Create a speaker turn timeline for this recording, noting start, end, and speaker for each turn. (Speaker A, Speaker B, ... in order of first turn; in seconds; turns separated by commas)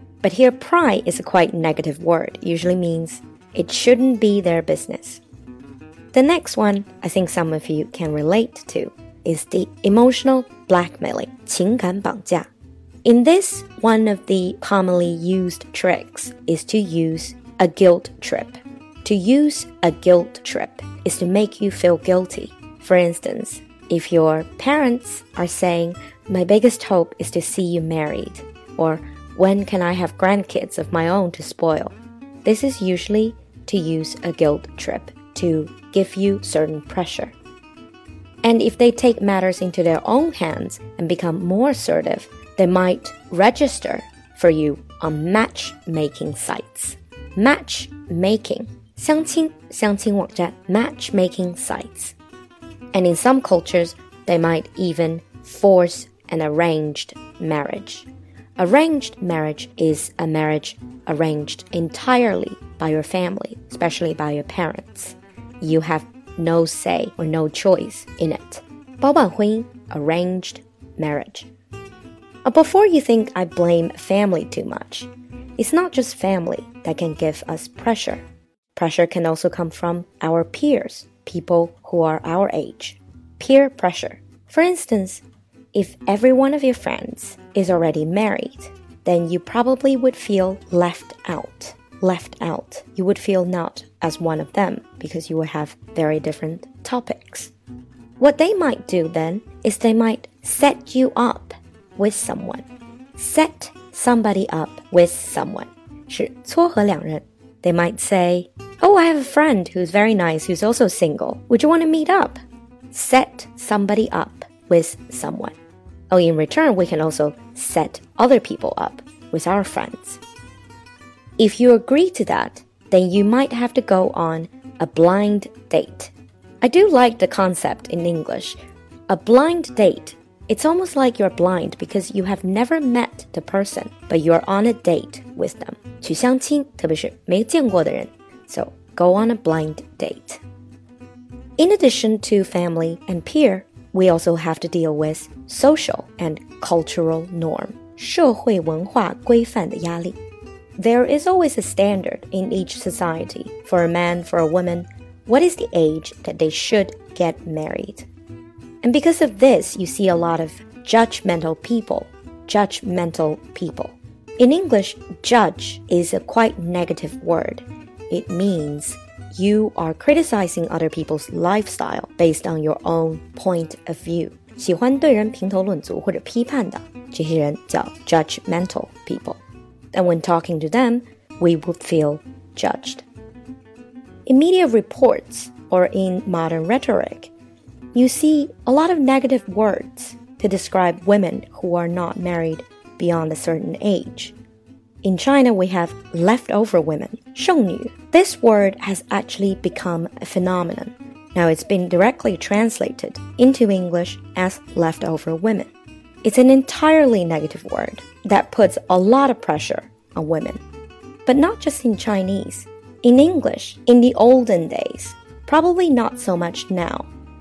Speaker A: 0.2-5.2, Speaker A: 6.1-12.5, Speaker A: 13.0-37.3, Speaker A: 38.4-52.1, Speaker A: 52.9-71.5, Speaker A: 72.4-85.2, Speaker A: 85.7-97.5, Speaker A: 98.2-102.6, Speaker A: 103.2-112.4, Speaker A: 112.9-115.5, Speaker A: 116.1-120.2, Speaker A: 121.4-140.4, Speaker A: 141.6-150.2, Speaker A: 150.8-158.1, Speaker A: 158.8-183.0, Speaker A: 184.2-187.3, Speaker A: 187.9-194.3, Speaker A: 195.0-205.7, Speaker A: 206.2-210.6, Speaker A: 211.2-217.1